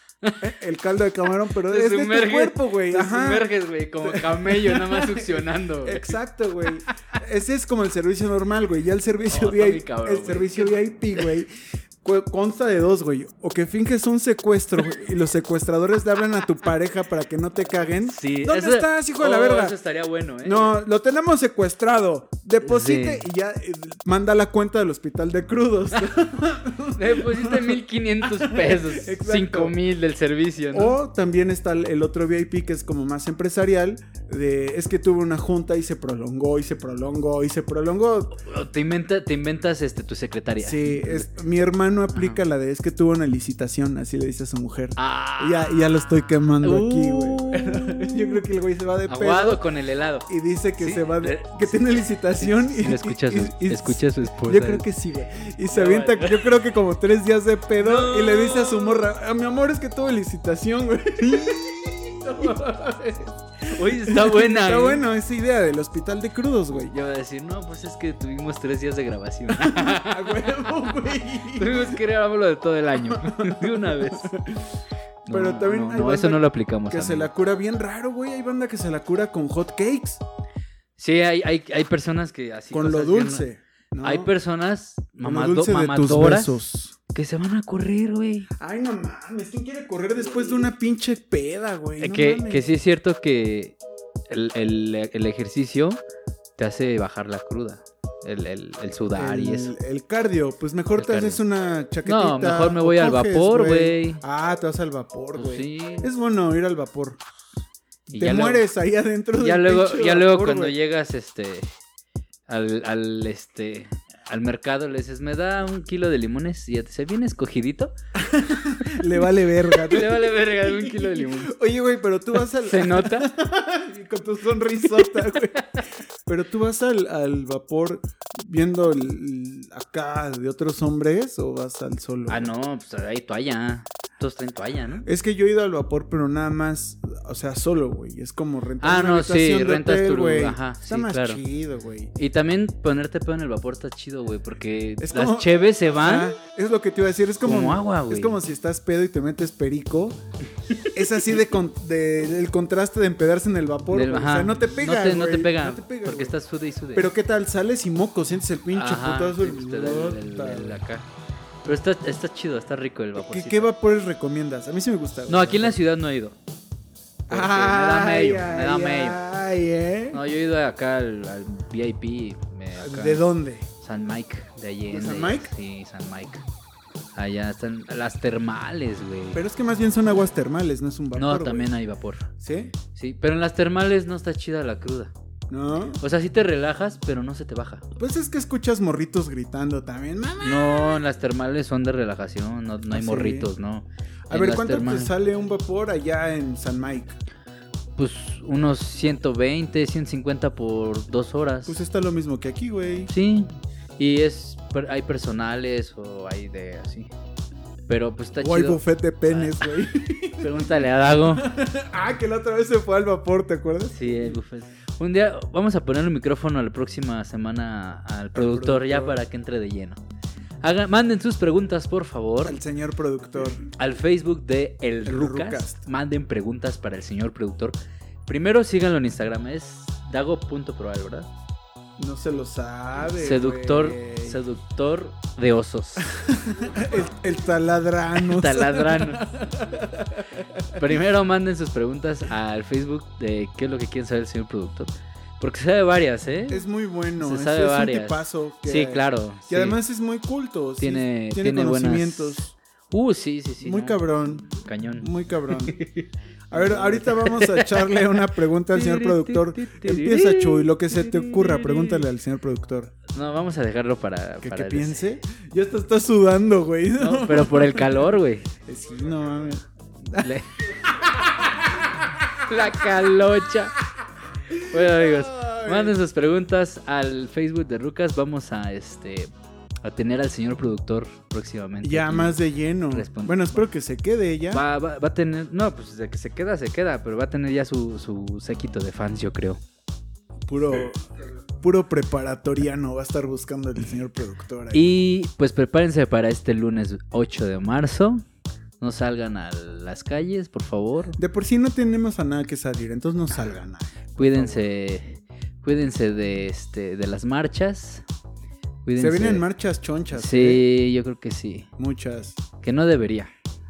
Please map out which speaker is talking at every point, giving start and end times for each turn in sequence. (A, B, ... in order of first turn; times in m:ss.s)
0:00.2-0:00.5 A
0:00.4-0:03.5 B
0:01.6-0:06.2 A
0:04.0-0:11.5 B
0:09.2-0:11.3 A
0:12.0-0:19.8 B
0:18.0-0:20.8 A
0:20.4-0:29.8 B
0:22.6-0:23.2 A
0:26.9-0:31.0 A
0:30.7-0:38.4 B
0:38.4-0:41.3 A
0:40.6-0:49.6 B
0:42.1-0:42.4 A
0:45.0-0:48.4 A
0:49.1-0:54.9 A
0:50.3-1:07.0 B
0:55.7-0:56.6 A
0:57.8-0:59.1 A
1:03.6-1:05.0 A
1:06.9-1:10.6 A
1:09.5-1:12.0 B
1:11.5-1:14.3 A
1:13.0-1:20.2 B
1:15.3-1:17.3 A
1:21.0-1:23.5 A
1:22.7-1:24.3 B
1:24.0-1:26.6 A
1:25.2-1:27.0 B
1:27.1-1:28.5 A
1:28.6-1:32.6 B
1:32.0-1:33.8 A
1:34.3-1:36.0 A
1:36.6-1:39.8 A
1:39.1-1:47.2 B
1:41.0-1:41.4 A
1:42.0-1:44.2 A
1:45.4-1:46.1 A
1:48.1-1:48.7 A
1:48.1-1:50.7 B
1:49.4-1:51.7 A
1:52.5-1:57.9 A
1:58.2-2:12.5 B
1:58.8-2:01.6 A
2:02.6-2:03.3 A
2:05.6-2:05.8 A
2:12.3-2:15.1 A
2:15.0-2:22.1 B
2:18.8-2:21.4 A
2:22.2-2:26.4 A
2:25.0-2:30.2 B
2:27.4-2:28.4 A
2:30.9-2:36.4 B
2:33.9-2:37.1 A
2:36.9-2:40.8 B
2:38.7-2:41.1 A
2:41.6-2:43.7 A
2:43.2-2:45.8 B
2:45.3-2:46.4 A
2:47.3-2:49.2 A
2:47.3-2:50.2 B
2:50.1-2:53.3 A
2:52.8-2:53.7 B
2:53.8-2:56.4 A
2:54.9-2:55.5 B
2:57.2-2:59.4 A
2:59.3-3:01.7 B
3:01.2-3:02.3 A
3:02.4-3:02.8 B
3:02.9-3:05.1 A
3:05.5-3:06.0 B
3:06.0-3:07.8 A
3:08.0-3:11.0 B
3:10.4-3:15.1 A
3:12.9-3:13.5 B
3:14.3-3:17.2 B
3:18.0-3:21.8 A
3:21.7-3:23.1 B
3:23.1-3:27.1 A
3:27.9-3:29.7 A
3:28.4-3:30.7 B
3:30.4-3:31.5 A
3:31.3-3:34.4 B
3:33.9-3:40.0 A
3:38.4-3:39.2 B
3:40.6-3:42.6 A
3:42.4-3:43.6 B
3:43.8-3:51.3 A
3:45.0-3:45.9 B
3:52.0-3:54.4 B
3:53.1-3:56.1 A
3:56.1-4:00.8 B
3:58.2-3:59.3 A
4:00.7-4:06.6 A
4:06.5-4:12.5 B
4:07.2-4:09.8 A
4:10.8-4:22.1 A
4:13.6-4:15.8 B
4:16.5-4:22.9 B
4:23.1-4:25.1 A
4:24.4-4:28.2 B
4:27.0-4:28.5 A
4:28.7-4:32.4 B
4:30.1-4:30.6 A
4:32.4-4:33.8 A
4:34.5-4:36.0 B
4:34.6-4:39.3 A
4:39.8-4:43.6 A
4:41.8-4:44.6 B
4:44.5-4:49.6 A
4:50.5-4:51.0 B
4:51.6-4:54.9 B
4:54.7-4:58.2 A
4:58.8-5:01.2 A
5:01.2-5:04.6 B
5:04.2-5:08.0 A
5:08.8-5:09.4 A
5:09.0-5:10.6 B
5:10.1-5:11.7 A
5:11.8-5:12.4 B
5:12.6-5:13.3 A